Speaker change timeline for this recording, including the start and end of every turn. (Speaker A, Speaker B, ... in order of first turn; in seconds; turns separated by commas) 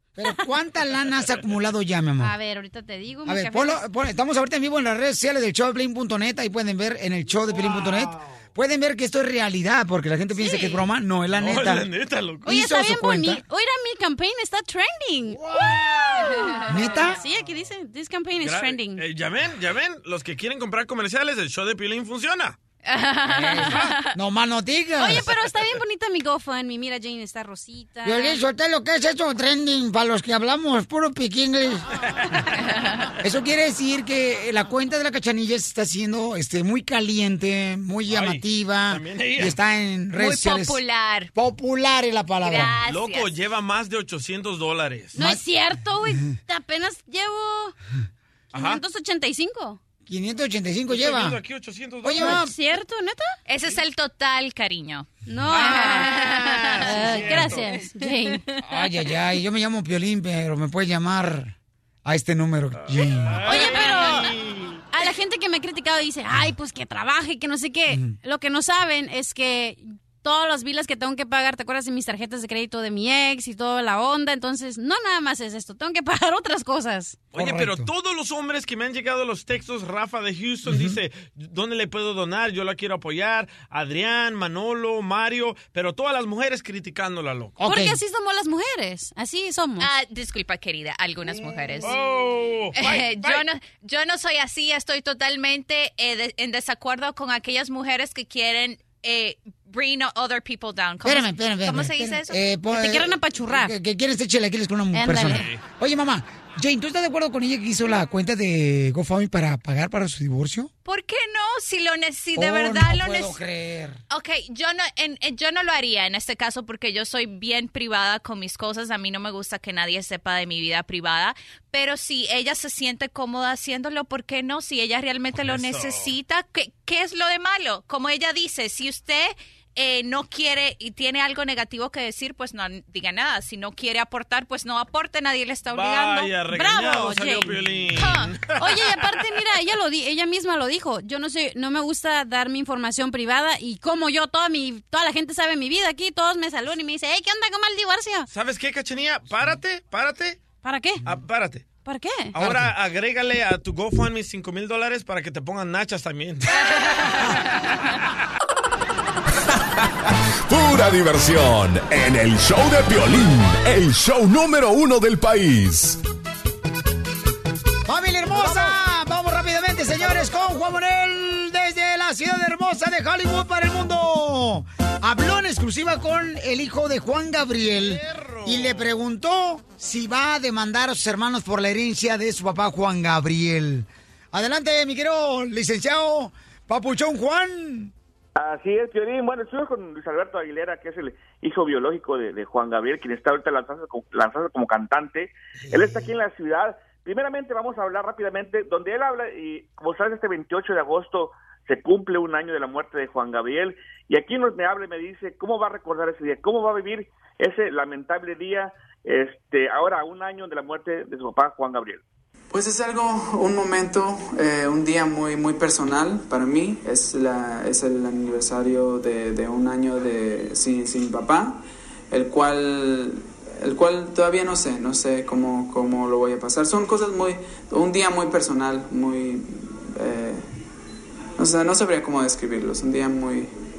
Speaker A: 0.2-2.3, Speaker B: 2.2-3.8, Speaker A: 3.3-11.9, Speaker B: 10.3-10.8, Speaker C: 11.4-12.4, Speaker A: 12.4-13.4, Speaker B: 12.5-19.0, Speaker A: 16.7-17.2, Speaker C: 18.4-22.6, Speaker D: 22.8-24.1, Speaker A: 23.3-25.3, Speaker C: 23.6-23.8, Speaker B: 25.0-28.4, Speaker A: 28.0-31.9, Speaker D: 32.6-33.1, Speaker A: 33.2-40.8, Speaker C: 38.1-39.6, Speaker D: 40.2-41.3, Speaker A: 41.3-42.8, Speaker D: 42.4-43.3, Speaker C: 42.9-45.2, Speaker B: 45.1-47.8, Speaker A: 45.2-45.4, Speaker C: 48.5-48.8, Speaker B: 48.5-49.8, Speaker A: 50.1-51.4, Speaker C: 50.9-52.4, Speaker A: 52.0-52.5, Speaker B: 52.2-53.3, Speaker D: 53.5-55.1, Speaker B: 55.3-58.4, Speaker C: 55.5-57.8, Speaker A: 58.6-61.5, Speaker A: 62.0-63.5, Speaker C: 63.3-64.8, Speaker B: 63.4-64.3, Speaker B: 64.9-77.2, Speaker A: 67.9-68.2, Speaker C: 77.3-87.6, Speaker A: 77.3-77.9, Speaker A: 80.7-81.0, Speaker A: 87.6-88.0, Speaker B: 87.6-89.9, Speaker D: 89.8-92.0, Speaker C: 91.8-93.4, Speaker D: 92.8-102.4, Speaker A: 101.0-110.7, Speaker B: 102.7-103.7, Speaker B: 104.9-105.5, Speaker C: 105.3-105.6, Speaker D: 110.9-113.4, Speaker A: 112.4-114.0, Speaker D: 114.1-136.3, Speaker C: 125.3-126.1, Speaker C: 135.7-138.9, Speaker B: 136.4-137.6, Speaker D: 138.0-138.3, Speaker B: 138.5-148.3, Speaker C: 148.3-150.4, Speaker B: 150.6-151.0, Speaker C: 151.1-151.7, Speaker B: 151.8-152.4, Speaker A: 152.4-152.7, Speaker C: 152.4-156.5, Speaker E: 160.1-166.0, Speaker A: 167.9-187.9, Speaker C: 177.8-178.9, Speaker F: 188.4-212.0, Speaker G: 212.5-230.5, Speaker G: 231.4-233.5